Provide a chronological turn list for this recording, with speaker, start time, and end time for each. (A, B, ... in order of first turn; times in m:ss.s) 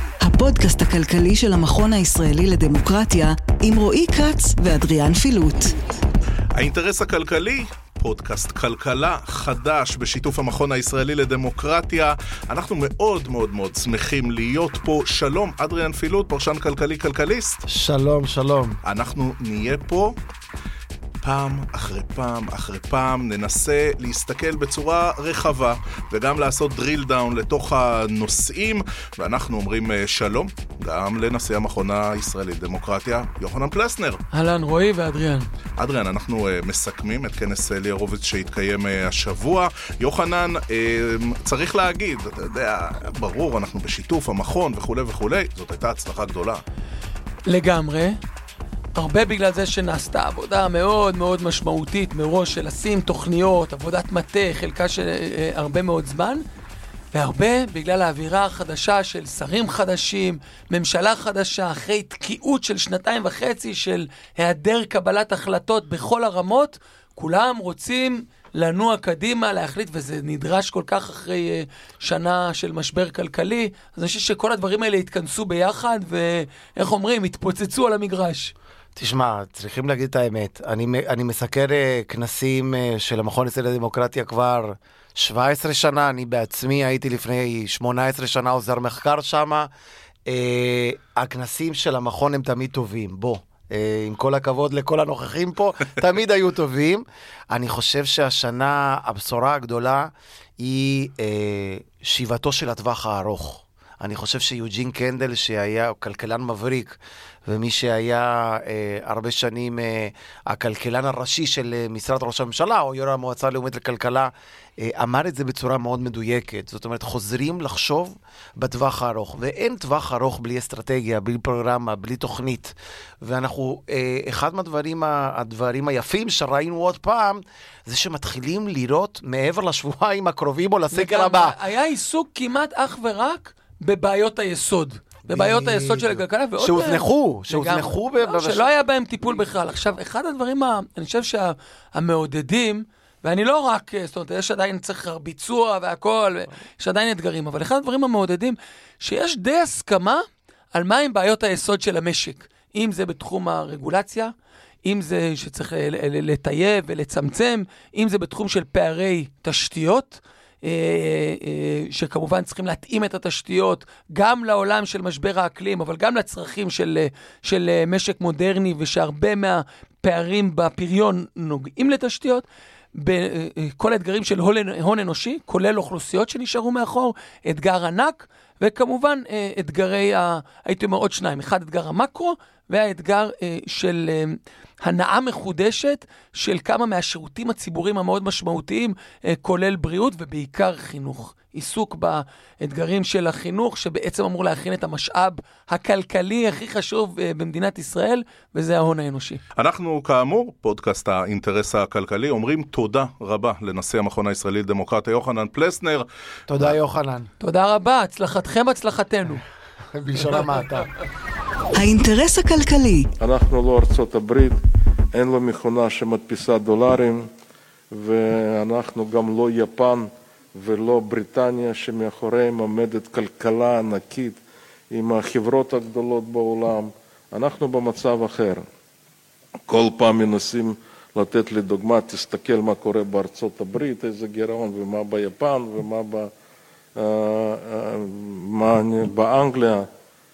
0:00.2-0:05.8 A
0:06.5-0:17.6 B
0:17.7-0:18.8 C
0:18.8-0:20.2 B
0:21.2-0:34.2 B
0:34.3-0:35.5 D
0:35.8-0:46.6 B
0:47.4-0:48.2 D
0:48.9-0:56.4 D
0:57.1-1:18.5 D
1:19.0-1:29.7 C
1:30.3-2:11.6 C
2:10.9-2:34.3 D
2:15.3-2:18.6 C
2:34.8-3:19.4 D
3:19.6-3:26.1 B
3:26.5-3:27.3 C
3:27.4-3:29.4 D
3:29.9-3:30.9 C
3:31.7-3:33.1 A
3:33.2-3:34.6 E
3:35.1-3:37.3 E
3:37.9-3:48.6 E
3:49.7-3:56.3 E
3:56.9-3:59.9 E